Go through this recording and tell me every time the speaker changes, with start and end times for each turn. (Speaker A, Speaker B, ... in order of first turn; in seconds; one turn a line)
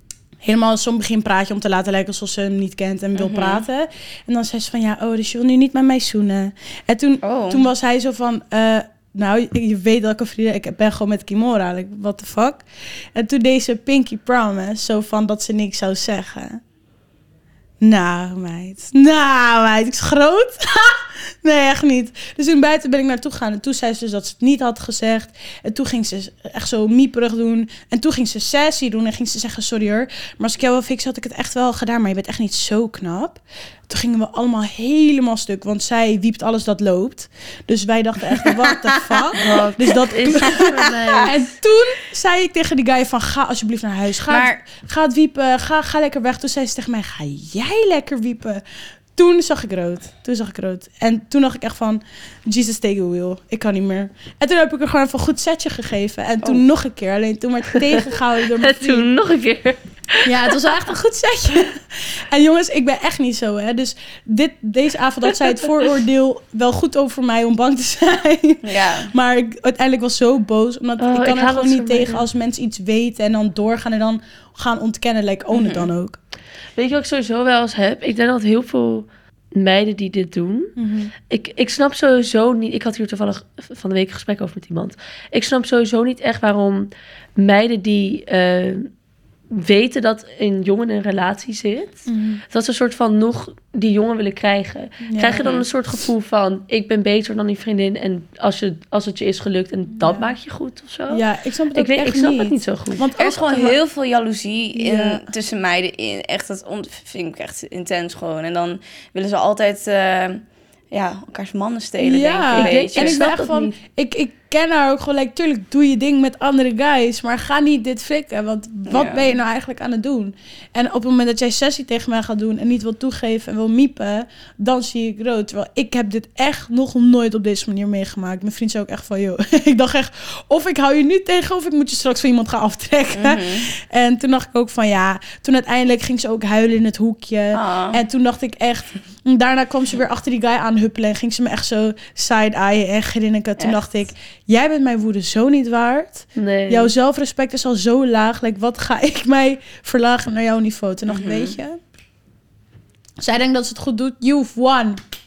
Speaker A: 0.4-16.6
Speaker B: 3.1-3.6
Speaker B: 7.2-7.7
Speaker A: 17.8-48.6
Speaker B: 38.4-39.2
Speaker C: 39.4-41.5
Speaker B: 40.5-41.2
Speaker B: 44.3-44.6
Speaker A: 49.1-59.1
Speaker C: 57.7-60.6
Speaker A: 60.2-76.2
Speaker B: 68.6-69.1
Speaker C: 71.0-72.2
Speaker B: 75.5-75.9
Speaker C: 76.8-80.7
Speaker A: 80.8-81.1
Speaker C: 81.3-88.9
Speaker C: 89.5-101.2
Speaker A: 92.1-92.4
Speaker A: 95.0-95.5
Speaker B: 95.3-95.7
Speaker A: 99.9-100.3
Speaker A: 101.1-103.8
Speaker C: 101.7-103.0
Speaker B: 103.2-113.3
Speaker A: 104.8-105.2
Speaker A: 112.0-151.8
Speaker C: 112.5-113.8
Speaker B: 118.9-119.3
Speaker B: 133.1-133.7
Speaker B: 137.5-138.0
Speaker B: 143.6-143.8
Speaker C: 146.3-146.9
Speaker B: 151.1-151.6
Speaker A: 153.2-155.0